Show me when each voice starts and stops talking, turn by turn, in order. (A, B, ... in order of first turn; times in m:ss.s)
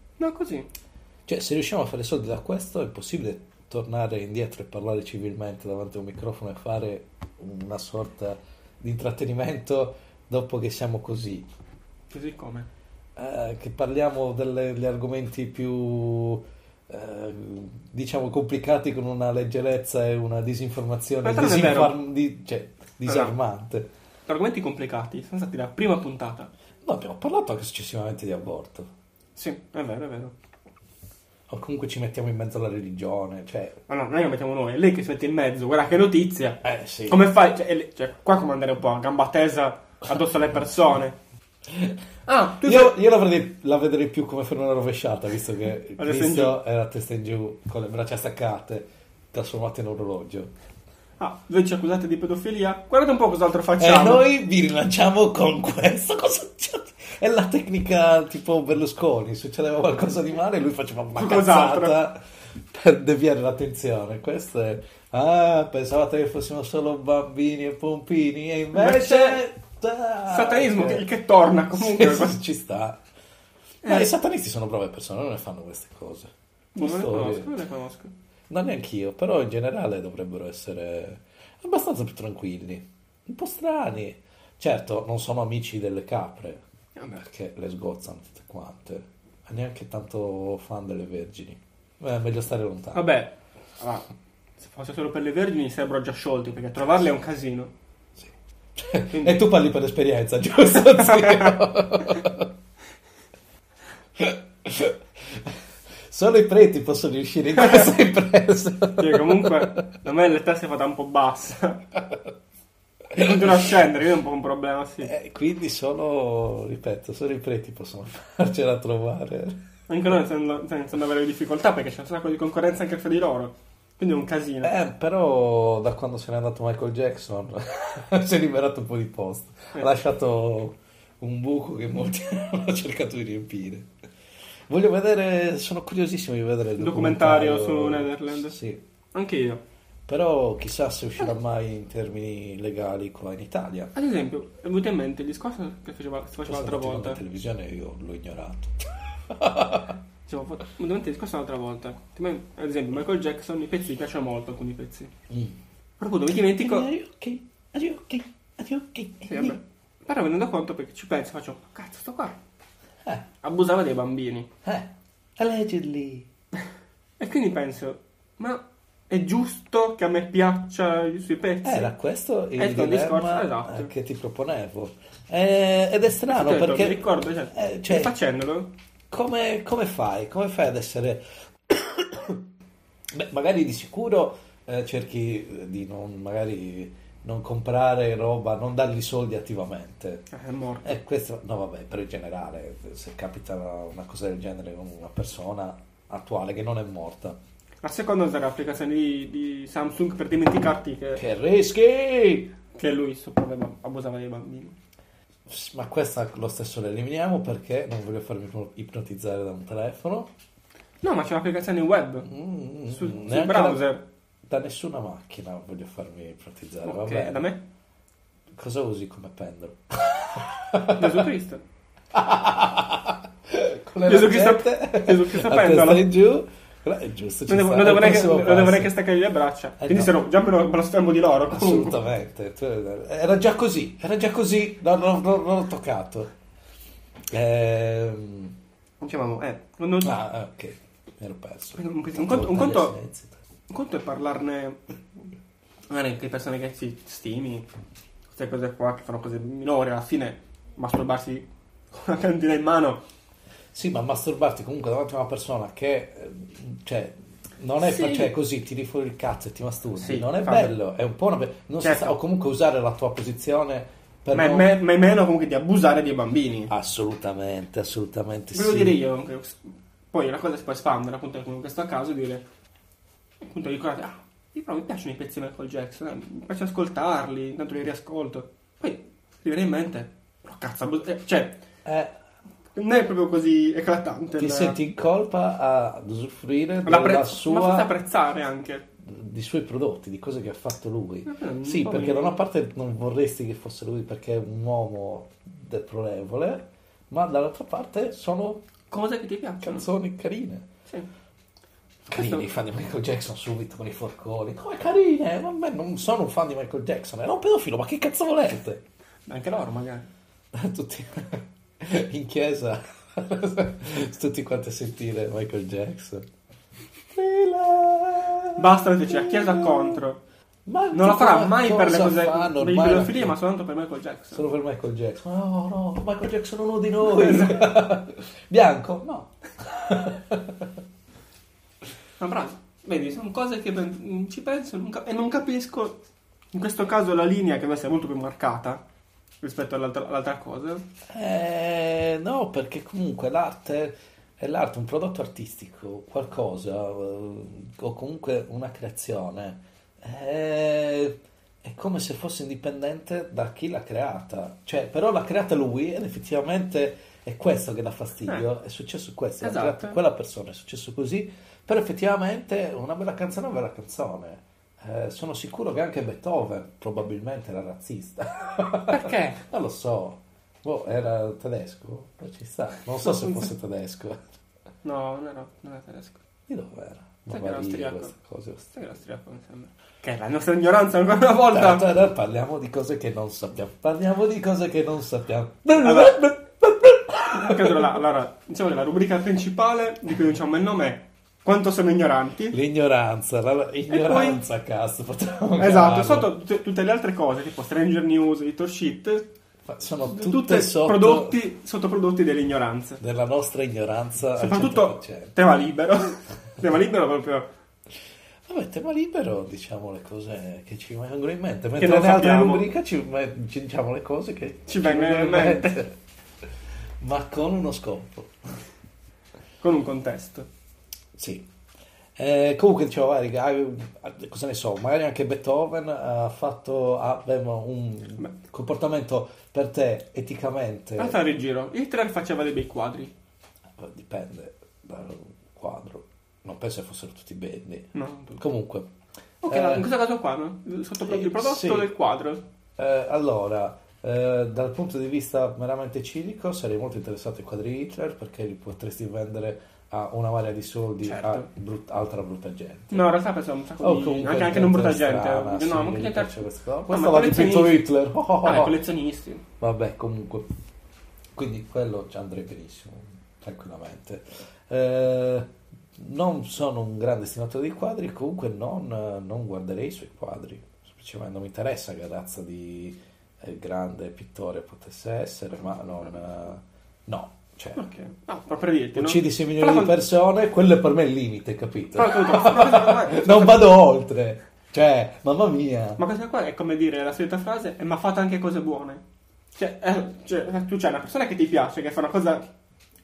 0:00.2-0:00.7 A
0:01.3-0:11.5 B
0:12.1-0:12.7 A
0:13.2-0:23.9 B
0:21.2-0:22.0 A
0:23.0-0:23.3 A
0:24.3-0:26.5 A
0:26.8-0:28.9 B
0:29.4-0:30.3 A
0:31.5-0:33.8 B
0:33.9-0:41.2 A
0:36.6-0:37.3 B
0:41.7-0:42.0 B
0:42.2-0:43.0 A
0:42.6-0:50.5 B
0:46.0-0:46.6 A
0:51.2-0:54.2 A
0:53.8-1:11.1 B
1:01.1-1:02.0 A
1:08.7-1:09.4 A
1:10.2-1:12.4 A
1:11.7-1:13.0 B
1:13.8-1:14.1 A
1:13.8-1:17.5 B
1:16.7-1:18.1 A
1:18.5-1:26.6 B
1:27.1-1:33.1 B
1:32.9-1:34.0 A
1:34.6-1:37.7 A
1:38.2-1:42.5 B
1:39.1-1:39.4 A
1:41.0-1:41.5 A
1:44.2-1:45.6 B
1:46.1-1:49.8 B
1:49.0-1:51.8 A
1:51.9-1:52.3 B
1:53.1-1:53.7 B
1:53.1-1:55.1 A
1:55.0-1:59.6 B
1:59.9-2:04.7 A
2:04.6-2:13.9 B
2:14.7-2:18.8 B
2:16.8-2:18.6 A
2:19.1-2:19.6 A
2:20.1-2:23.9 B
2:23.9-2:27.2 A
2:26.4-2:30.0 B
2:30.2-2:35.1 A
2:35.3-2:35.6 B
2:36.0-2:36.9 A
2:36.3-2:39.6 B
2:39.3-2:42.4 A
2:43.4-2:44.5 A
2:44.6-2:46.3 B
2:47.2-2:51.9 A
2:51.6-2:58.1 B
2:52.6-2:53.9 A
2:56.3-2:58.7 A
2:59.1-3:02.4 B
3:03.1-3:10.2 B
3:10.3-3:10.9 A
3:10.8-3:17.4 B
3:17.8-3:21.2 A
3:21.2-3:22.6 B
3:22.7-3:24.8 A
3:25.5-3:30.3 B
3:31.0-3:32.3 A
3:32.2-3:33.9 B
3:32.9-3:34.0 A
3:34.5-3:37.5 B
3:36.8-3:37.6 A
3:38.6-3:41.3 B
3:40.9-3:41.6 A
3:42.1-3:49.0 B
3:44.0-3:46.1 A
3:47.5-3:52.0 A
3:49.8-3:50.1 B
3:51.5-3:56.3 B
3:57.3-3:58.6 B
3:59.0-4:00.2 A
4:00.0-4:03.4 B
4:01.8-4:03.0 A
4:03.7-4:04.8 A
4:05.9-4:07.7 A
4:08.3-4:13.0 A
4:13.7-4:24.7 B
4:17.8-4:18.3 A
4:20.0-4:20.7 A
4:21.8-4:22.2 A
4:24.3-4:26.7 A
4:26.7-4:29.0 B
4:28.5-4:32.4 A
4:33.4-4:41.6 A
4:41.8-4:42.1 B
4:42.7-4:44.8 A
4:44.4-4:47.9 B
4:46.8-4:48.8 A
4:49.0-4:58.6 B
4:51.2-4:52.4 A
4:58.9-4:59.8 A
4:59.6-5:00.7 B
5:02.1-5:08.8 B
5:02.1-5:02.5 A
5:09.3-5:10.1 A
5:10.5-5:16.2 B
5:17.1-5:20.0 B
5:18.5-5:20.2 A
5:20.6-5:23.4 B
5:20.9-5:24.4 A
5:24.3-5:30.8 B
5:27.1-5:27.6 A
5:32.2-5:38.8 A
5:39.4-5:40.8 A
5:41.1-6:14.2 B
5:59.4-6:00.0 A
6:08.9-6:09.4 A
6:13.0-6:13.5 A
6:14.8-6:16.2 A
6:16.5-6:18.7 B
6:17.3-6:18.1 A
6:18.7-6:21.9 A
6:21.5-6:28.0 B
6:25.8-6:26.2 A
6:27.3-6:32.6 A
6:32.5-6:36.3 B
6:33.9-6:34.4 A
6:35.6-6:39.3 A
6:39.6-6:41.4 B
6:40.1-6:43.0 A
6:43.0-6:45.3 B
6:44.3-6:47.5 A
6:48.5-6:55.9 B
6:51.8-6:52.6 A
6:54.7-6:55.8 A
6:57.0-6:58.4 B
6:59.6-7:00.5 A
7:01.1-7:01.5 B
7:02.2-7:11.2 B
7:11.0-7:13.1 A
7:13.8-7:18.9 B
7:17.9-7:18.4 A
7:19.4-7:22.4 A
7:19.4-7:19.9 B
7:21.0-7:21.9 B
7:22.8-7:33.1 B
7:31.0-7:31.5 A
7:32.9-7:37.8 A
7:33.8-7:38.8 B
7:38.4-7:39.4 A
7:39.6-7:40.4 B
7:41.3-7:57.8 B
7:55.8-7:56.1 A
7:57.8-7:59.9 A
7:58.9-8:06.0 B
8:01.9-8:03.7 A
8:06.0-8:09.0 A
8:09.5-8:12.4 A